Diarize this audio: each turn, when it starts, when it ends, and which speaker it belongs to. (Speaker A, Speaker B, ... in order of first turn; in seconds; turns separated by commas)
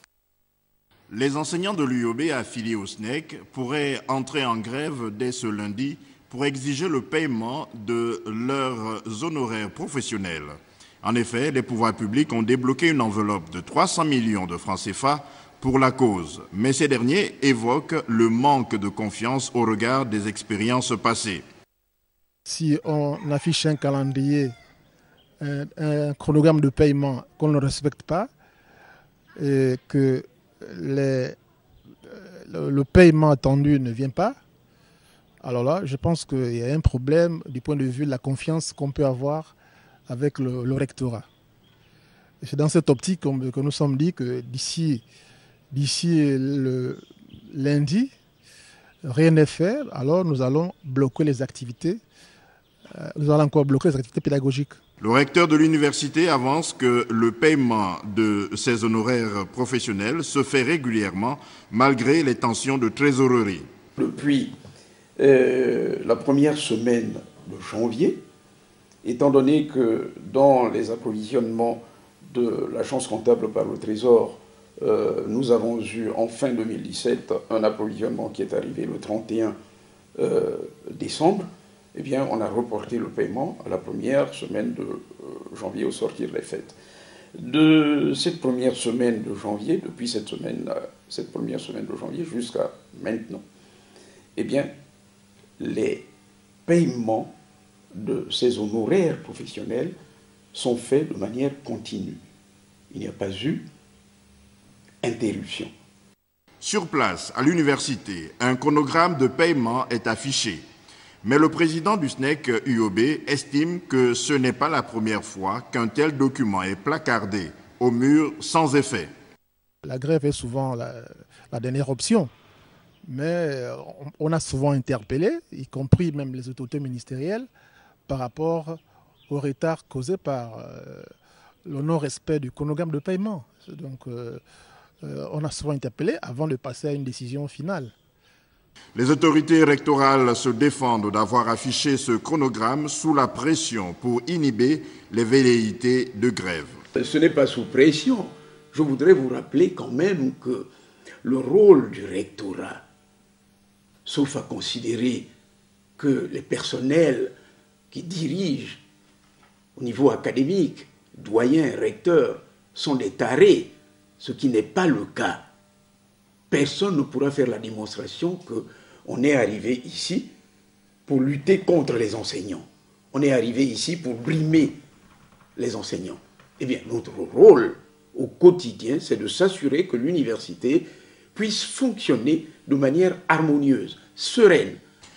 Speaker A: 1.1-21.4, Speaker B: 22.4-24.5, Speaker B: 25.4-28.3, Speaker B: 29.4-31.4, Speaker B: 32.1-34.4, Speaker B: 35.4-39.5, Speaker B: 40.1-41.2, Speaker B: 42.4-45.0, Speaker B: 45.7-48.1, Speaker B: 49.0-52.0, Speaker B: 52.9-54.7, Speaker A: 55.0-63.6, Speaker C: 64.0-64.5, Speaker C: 65.2-68.2, Speaker C: 69.0-79.6, Speaker C: 80.2-86.8, Speaker C: 87.3-93.4, Speaker C: 94.3-94.7, Speaker C: 95.6-96.1, Speaker C: 96.7-97.3, Speaker C: 97.9-100.0, Speaker C: 100.5-102.2, Speaker C: 102.9-103.7, Speaker C: 105.0-105.7, Speaker A: 106.6-110.6, Speaker A: 111.2-119.1, Speaker B: 119.8-122.3, Speaker B: 123.0-127.5, Speaker B: 128.1-131.1, Speaker B: 131.6-134.4, Speaker B: 135.0-137.9, Speaker A: 138.9-146.8, Speaker C: 146.9-150.7, Speaker C: 151.2-152.8, Speaker C: 154.0-155.3, Speaker C: 156.0-157.3, Speaker C: 157.9-158.8, Speaker C: 159.8-165.5, Speaker C: 166.5-170.3, Speaker C: 171.1-174.8, Speaker C: 175.6-184.8